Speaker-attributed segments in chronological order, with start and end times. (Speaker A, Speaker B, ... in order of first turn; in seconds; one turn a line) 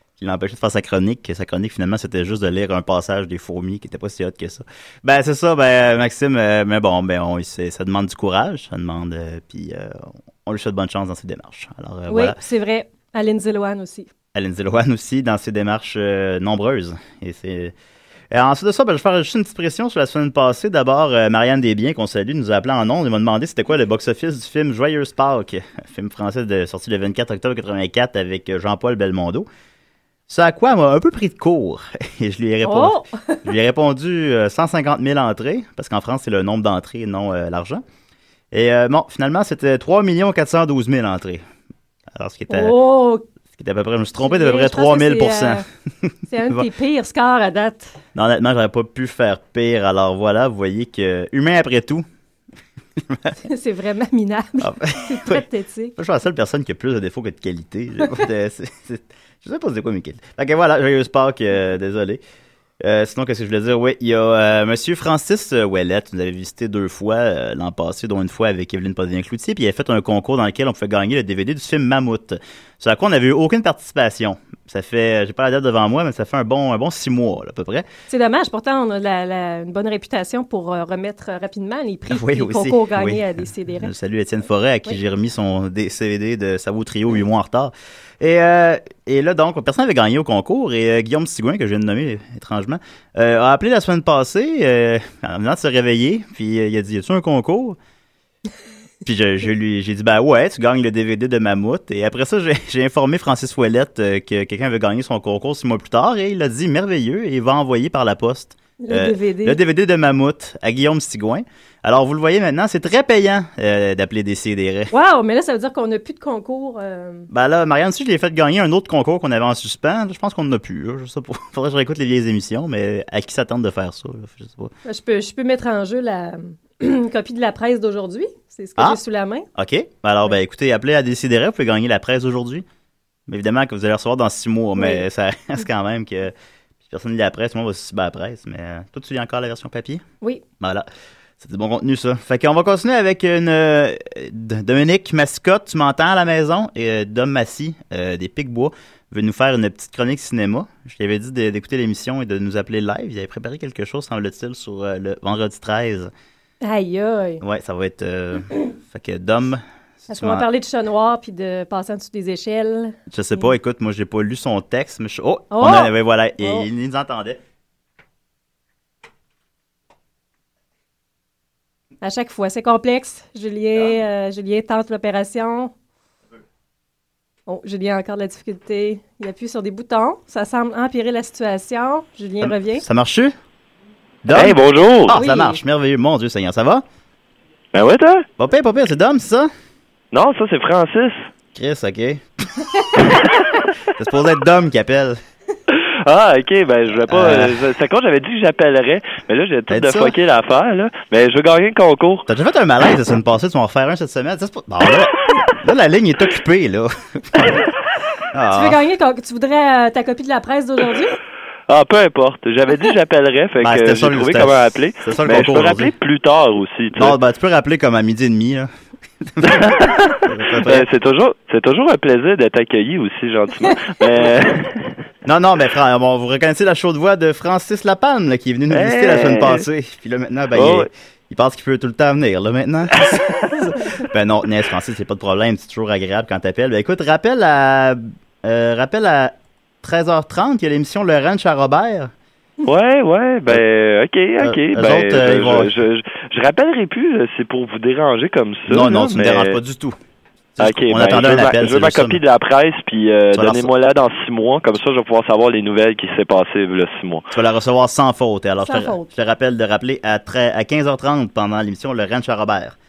Speaker A: 0.2-12.4
Speaker B: 12.1-14.1
Speaker A: 14.3-17.7
Speaker A: 18.3-29.5
Speaker A: 30.3-37.8
Speaker B: 32.6-33.5
Speaker A: 38.5-41.4
Speaker A: 42.1-42.8
Speaker B: 42.5-43.2
Speaker A: 43.5-46.7
Speaker B: 44.2-45.6
Speaker B: 46.3-47.9
Speaker A: 48.1-52.1
Speaker A: 53.0-53.4
Speaker B: 53.4-56.0
Speaker A: 54.6-55.5
Speaker A: 56.0-62.2
Speaker A: 62.8-77.9
Speaker B: 78.1-83.9
Speaker A: 82.1-97.8
Speaker A: 99.0-114.9
Speaker B: 108.8-109.6
Speaker B: 114.9-117.3
Speaker A: 117.3-124.7
Speaker B: 124.8-129.5
Speaker A: 129.6-132.7
Speaker A: 133.3-136.3
Speaker B: 134.8-135.0
Speaker A: 136.9-140.0
Speaker A: 140.6-140.9
Speaker A: 141.4-156.1
Speaker B: 156.6-157.4
Speaker A: 157.4-160.5
Speaker B: 160.1-163.5
Speaker A: 163.1-167.4
Speaker B: 165.5-166.7
Speaker B: 172.0-175.7
Speaker B: 177.5-182.8
Speaker A: 182.4-183.3
Speaker A: 184.2-186.8
Speaker C: 184.3-185.2
Speaker B: 185.1-185.6
Speaker C: 187.7-188.3
Speaker A: 188.4-189.5
Speaker C: 190.1-191.3
Speaker A: 191.6-192.2
Speaker A: 193.9-195.2
Speaker C: 195.7-202.2
Speaker A: 197.1-197.7
Speaker A: 199.7-200.2
Speaker A: 202.3-207.6
Speaker A: 208.3-208.8
Speaker B: 208.5-211.2
Speaker C: 211.7-217.2
Speaker A: 213.6-215.9
Speaker A: 217.0-218.7
Speaker A: 219.2-220.9
Speaker C: 219.4-224.8
Speaker A: 225.2-242.1
Speaker C: 228.7-229.7
Speaker C: 230.5-230.9
Speaker C: 242.7-249.6
Speaker A: 244.4-245.7
Speaker A: 248.7-250.0
Speaker A: 250.6-252.2
Speaker C: 250.6-257.2
Speaker A: 253.3-253.7
Speaker A: 257.3-262.8
Speaker B: 258.6-259.1